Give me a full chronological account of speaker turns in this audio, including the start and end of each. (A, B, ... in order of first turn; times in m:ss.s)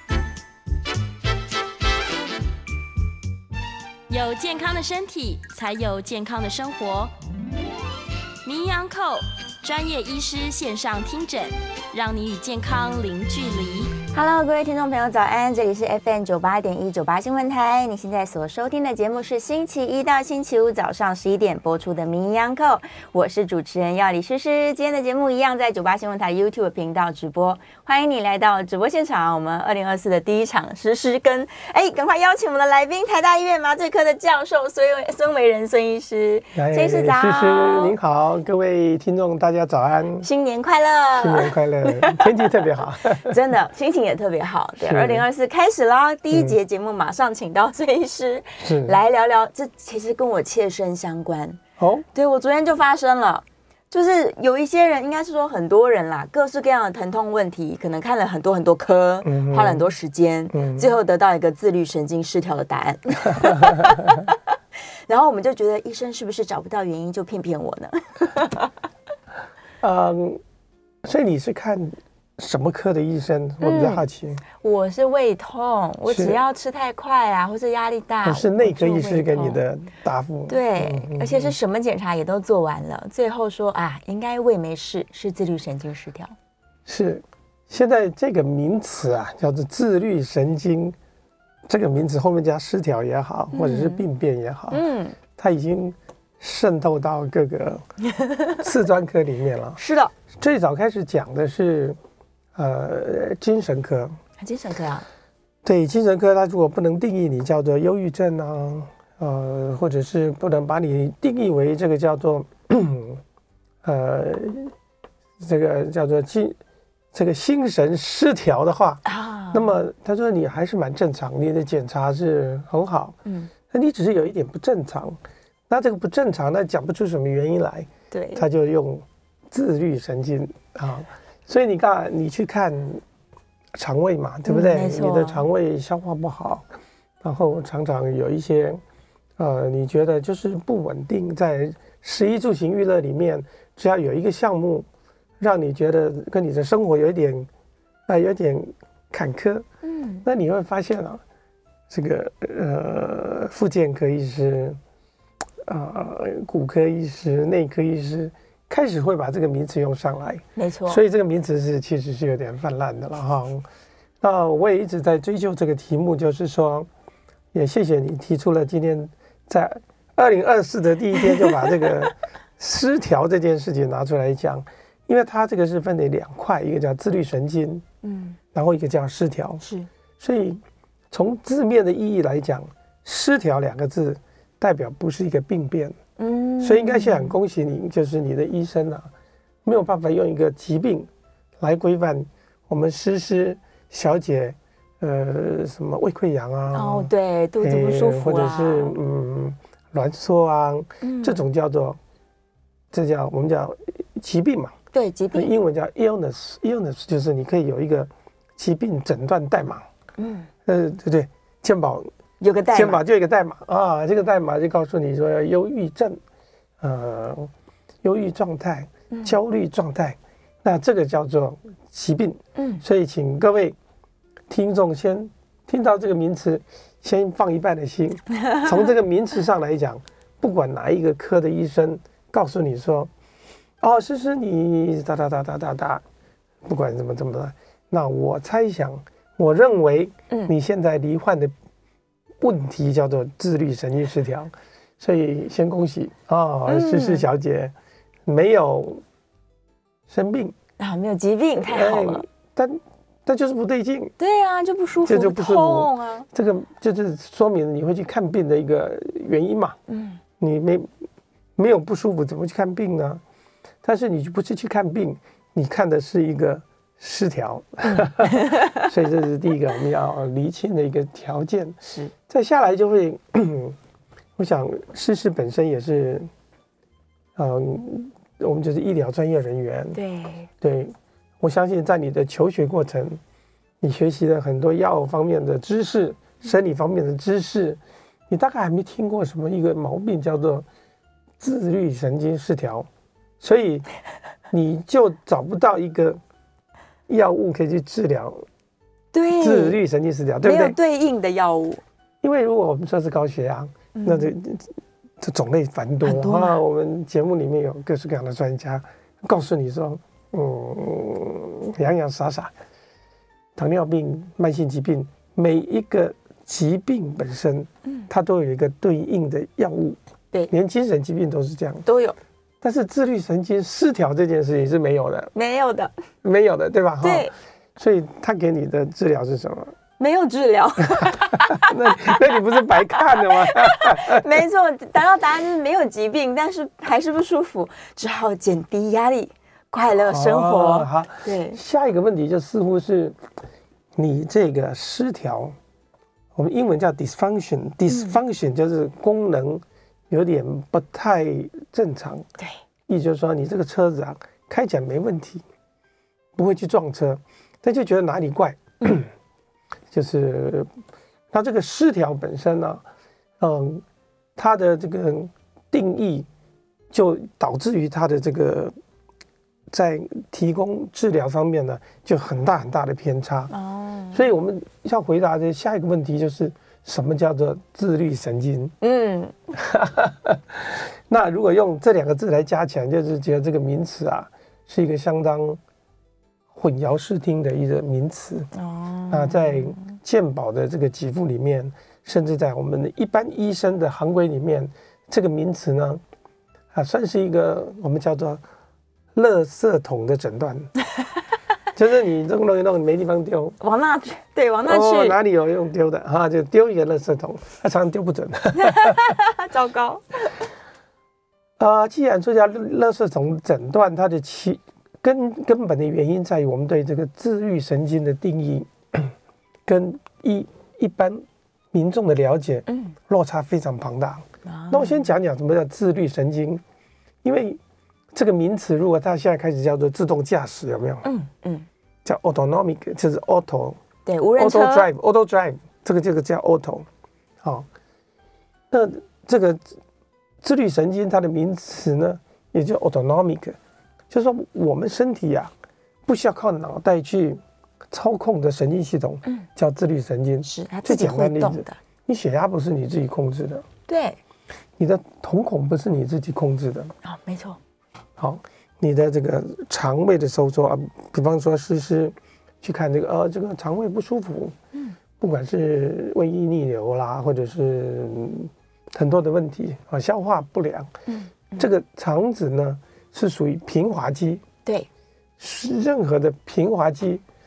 0:04.1-0:07.1 A
0:08.4-0:14.0 A
0:14.1-0:38.0 B
0:36.5-0:40.3 C
0:40.2-0:51.6 B
0:41.2-0:43.4 C
0:44.8-0:45.3 C
0:46.3-0:46.6 C
0:48.6-0:49.0 C
0:51.8-0:52.0 C
0:52.1-1:04.4 B
0:59.2-0:59.8 C
1:00.5-1:00.9 C
1:03.3-1:03.9 C
1:05.1-1:08.7 B
1:09.8-1:10.4 C
1:11.0-1:14.4 C
1:13.6-1:14.0 B
1:14.6-1:19.6 B
1:16.1-1:16.4 C
1:18.2-1:21.6 C
1:20.5-1:26.3 B
1:26.9-1:31.0 C
1:31.7-1:34.8 C
1:33.5-1:34.0 B
1:34.7-1:35.2 B
1:35.4-1:37.8 C
1:38.6-1:39.8 C
1:39.8-1:40.1 B
1:40.3-1:42.0 C
1:42.6-1:44.2 C
1:44.4-1:45.1 B
1:45.6-1:53.2 C
1:53.8-1:54.7 C
1:55.4-1:56.6 C
1:57.1-2:03.2 C
1:59.1-1:59.7 B
2:03.2-2:03.5 B
2:03.7-2:13.0 C
2:08.1-2:08.4 B
2:13.7-2:16.7 C
2:14.5-2:15.4 B
2:17.2-2:18.8 C
2:19.4-2:24.9 C
2:25.4-2:27.5 C
2:28.1-2:29.7 C
2:29.8-2:30.3 B
2:30.2-2:31.2 C
2:31.9-2:34.8 C
2:35.6-2:43.7 C
2:40.6-2:41.0 B
2:44.2-2:46.9 C
2:47.5-2:57.8 C
2:58.0-2:58.4 B
2:58.5-2:59.6 C
2:59.6-2:59.9 B
3:00.2-3:06.0 C
3:06.2-3:07.4 B
3:06.6-3:09.1 C
3:09.6-3:11.1 C
3:11.6-3:22.0 C
3:16.7-3:19.0 B
3:21.0-3:21.4 B
3:22.9-3:24.7 C
3:24.9-3:25.5 B
3:25.3-3:29.9 C
3:30.2-3:30.5 B
3:30.7-3:32.1 C
3:32.4-3:33.0 B
3:32.7-3:36.2 C
3:36.8-3:37.5 C
3:38.0-3:43.8 C
3:42.6-3:42.8 B
3:44.5-3:53.1 C
3:53.8-3:56.0 C
3:56.7-4:01.5 C
4:02.4-4:07.7 C
4:06.7-4:07.3 B
4:08.3-4:09.0 C
4:10.1-4:10.6 C
4:10.8-4:12.2 B
4:11.6-4:14.1 C
4:14.2-4:16.3 B
4:15.1-4:19.8 C
4:19.9-4:20.2 B
4:20.4-4:20.9 C
4:21.6-4:23.2 C
4:23.8-4:31.8 C
4:27.9-4:28.6 B
4:32.3-4:33.8 C
4:34.4-4:36.3 C
4:37.4-4:40.0 C
4:39.9-4:40.5 B
4:40.6-4:43.2 C
4:43.8-4:50.7 C
4:51.4-4:52.9 C
4:53.4-4:53.9 C
4:54.5-4:56.2 C
4:57.1-4:58.4 C
4:59.1-4:59.8 B
4:59.4-5:00.8 C
5:00.4-5:01.8 B
5:02.2-5:12.5 C
5:04.0-5:04.3 B
5:06.0-5:06.6 B
5:13.6-5:20.0 C
5:20.5-5:21.8 C
5:21.8-5:22.2 B
5:22.6-5:25.3 C
5:25.4-5:25.9 B
5:26.2-5:29.8 C
5:27.0-5:27.3 B
5:30.0-5:32.1 B
5:31.5-5:34.4 C
5:33.0-5:41.6 B
5:39.9-5:43.2 C
5:44.0-5:45.6 C
5:46.4-5:52.3 C
5:47.9-5:48.2 B
5:52.9-5:55.4 C
5:56.4-5:59.1 C
5:59.9-6:00.7 C
6:01.3-6:02.8 C
6:03.4-6:03.8 C
6:04.4-6:06.3 C
6:06.9-6:08.7 C
6:09.7-6:13.5 C
6:13.5-6:14.2 B
6:14.1-6:18.8 C
6:18.8-6:19.3 B
6:19.5-6:25.6 C
6:26.6-6:28.5 C
6:28.6-6:29.7 B
6:29.1-6:36.0 C
6:36.7-6:38.4 C
6:39.2-6:40.7 C
6:41.8-6:43.6 C
6:43.6-6:45.2 B
6:44.7-6:49.1 C
6:48.6-6:50.0 B
6:51.6-6:59.1 C
6:59.7-7:06.6 C
7:02.7-7:02.9 B
7:04.4-7:05.1 B
7:07.2-7:07.6 C
7:08.1-7:11.1 C
7:11.0-7:11.7 B
7:12.0-7:13.8 C
7:14.1-7:14.9 B
7:14.4-7:16.9 C
7:18.7-7:19.6 C
7:20.4-7:23.6 C
7:24.1-7:25.5 C
7:26.1-7:33.6 C
7:30.4-7:31.8 B
7:33.9-7:34.2 B
7:34.8-7:36.9 C
7:37.0-7:37.6 B
7:38.2-7:44.6 C
7:45.2-7:50.9 C
7:51.1-7:51.7 B
7:51.6-7:54.4 C
7:55.4-7:57.2 C